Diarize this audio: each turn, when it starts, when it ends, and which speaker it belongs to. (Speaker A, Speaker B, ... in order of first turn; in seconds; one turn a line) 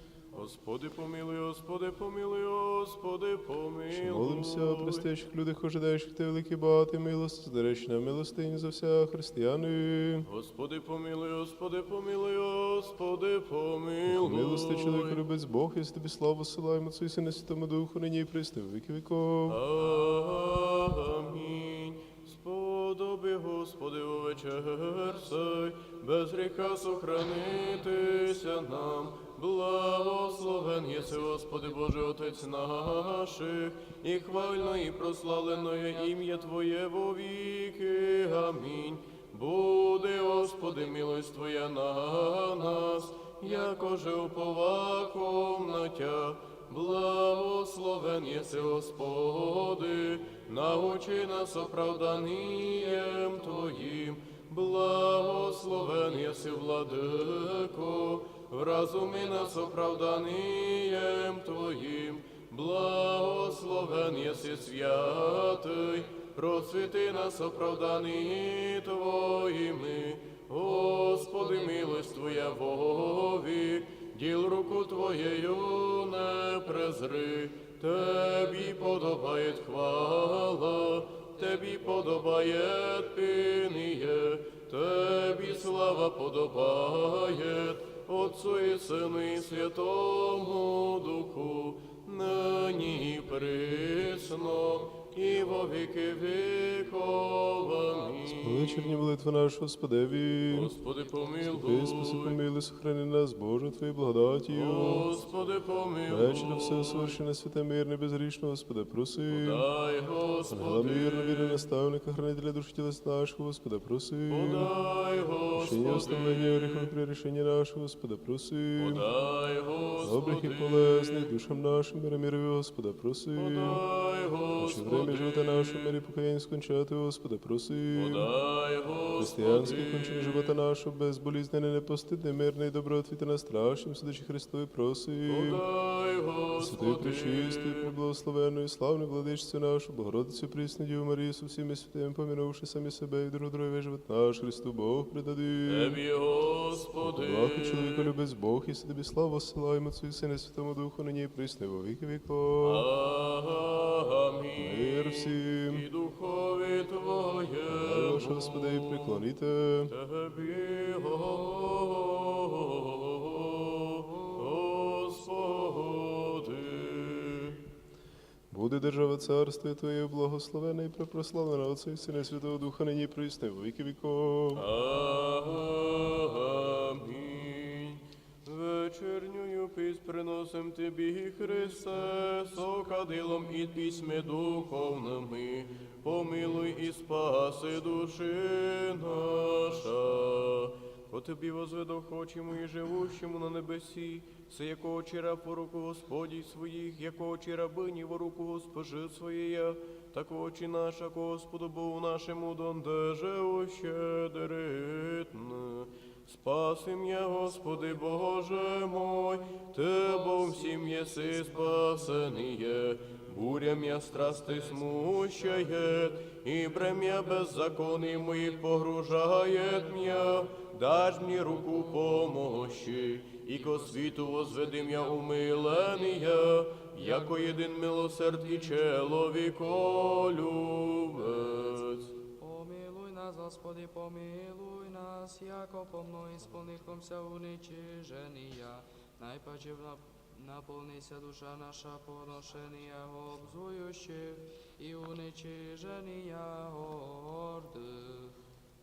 Speaker A: 0.3-5.1
Speaker B: 3.9-10.3
Speaker A: 10.2-15.2
Speaker B: 14.1-19.6
Speaker A: 19.5-99.0
Speaker B: 98.4-100.8
Speaker A: 100.5-102.4
Speaker B: 101.5-105.1
Speaker A: 104.5-107.2
Speaker B: 106.1-109.7
Speaker A: 109.3-111.6
Speaker B: 110.5-114.7
Speaker A: 114.3-116.9
Speaker B: 115.5-119.1
Speaker A: 118.8-121.3
Speaker B: 120.0-123.8
Speaker A: 123.3-126.0
Speaker B: 124.6-128.3
Speaker A: 127.9-130.6
Speaker B: 129.2-135.6
Speaker A: 135.3-137.9
Speaker B: 136.6-146.0
Speaker A: 145.7-148.1
Speaker B: 147.0-152.9
Speaker A: 152.6-159.2
Speaker B: 154.6-155.9
Speaker B: 157.7-159.9
Speaker A: 159.9-167.6
Speaker B: 168.5-174.7
Speaker A: 174.6-232.1
Speaker C: 232.4-248.4